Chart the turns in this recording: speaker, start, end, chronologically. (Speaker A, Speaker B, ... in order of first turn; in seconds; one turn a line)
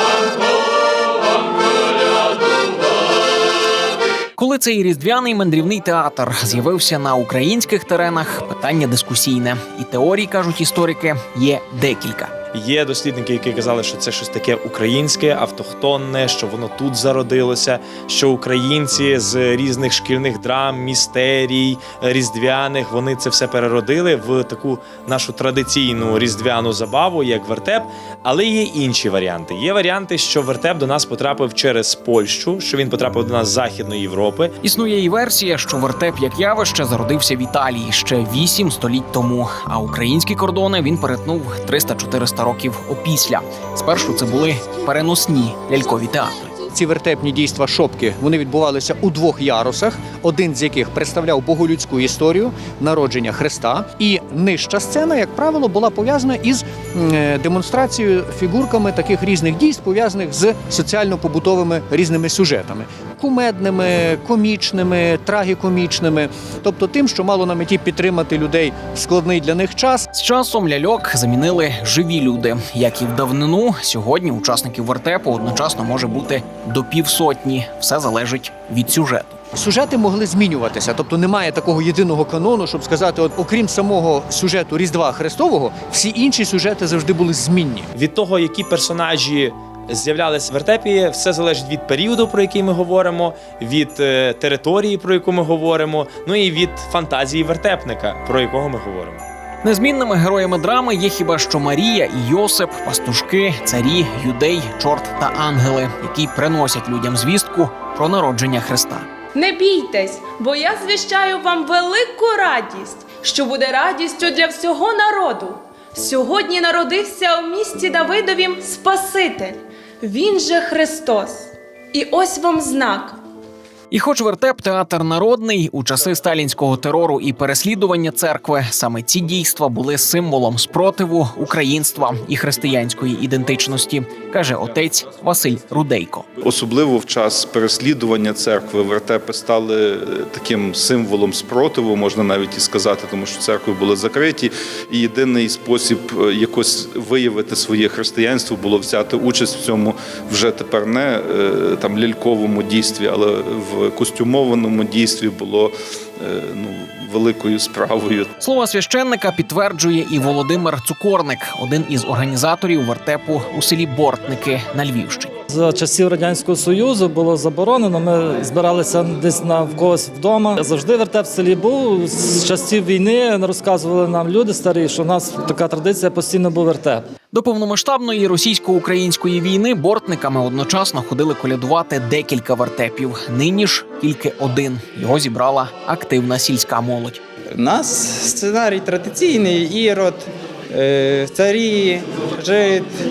Speaker A: 4.4-12.3
Speaker B: 12.5-34.5
Speaker A: 34.6-46.5
Speaker C: 46.7-70.0
Speaker A: 70.1-79.4
Speaker C: 79.5-87.9
Speaker B: 88.0-99.2
Speaker A: 99.6-109.1
Speaker D: 109.4-123.2
Speaker A: 123.9-136.3
Speaker E: 136.4-158.3
Speaker A: 158.4-165.3
Speaker F: 165.5-177.1
Speaker A: 177.3-187.2
Speaker G: 187.6-192.9